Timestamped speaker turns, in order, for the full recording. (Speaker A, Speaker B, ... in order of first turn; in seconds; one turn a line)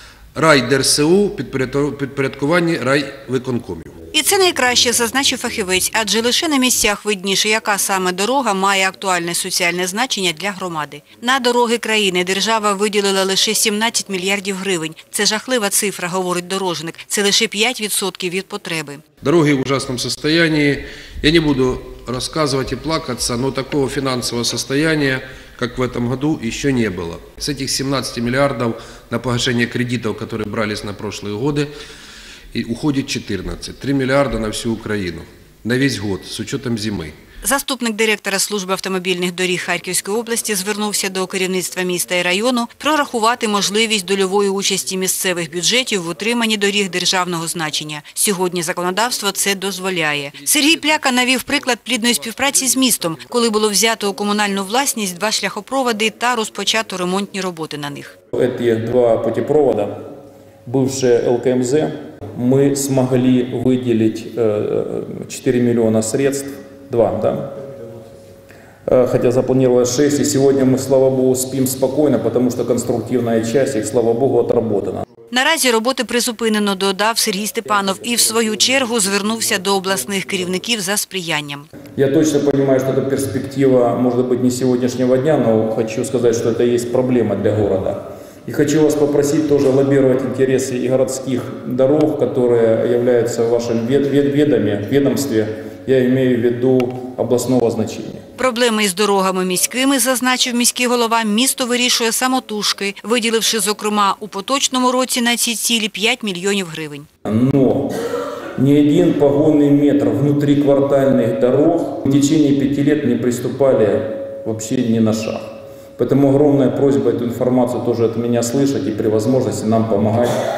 Speaker A: 0.3-4.0
Speaker B: 4.1-19.0
Speaker A: 19.2-31.7
Speaker A: 32.5-37.1
Speaker B: 37.4-58.1
Speaker C: 58.3-60.0
Speaker C: 60.6-67.5
Speaker C: 68.8-75.0
Speaker B: 75.3-81.7
Speaker C: 81.9-98.2
Speaker B: 98.4-107.1
Speaker C: 107.2-107.9
Speaker C: 108.6-120.3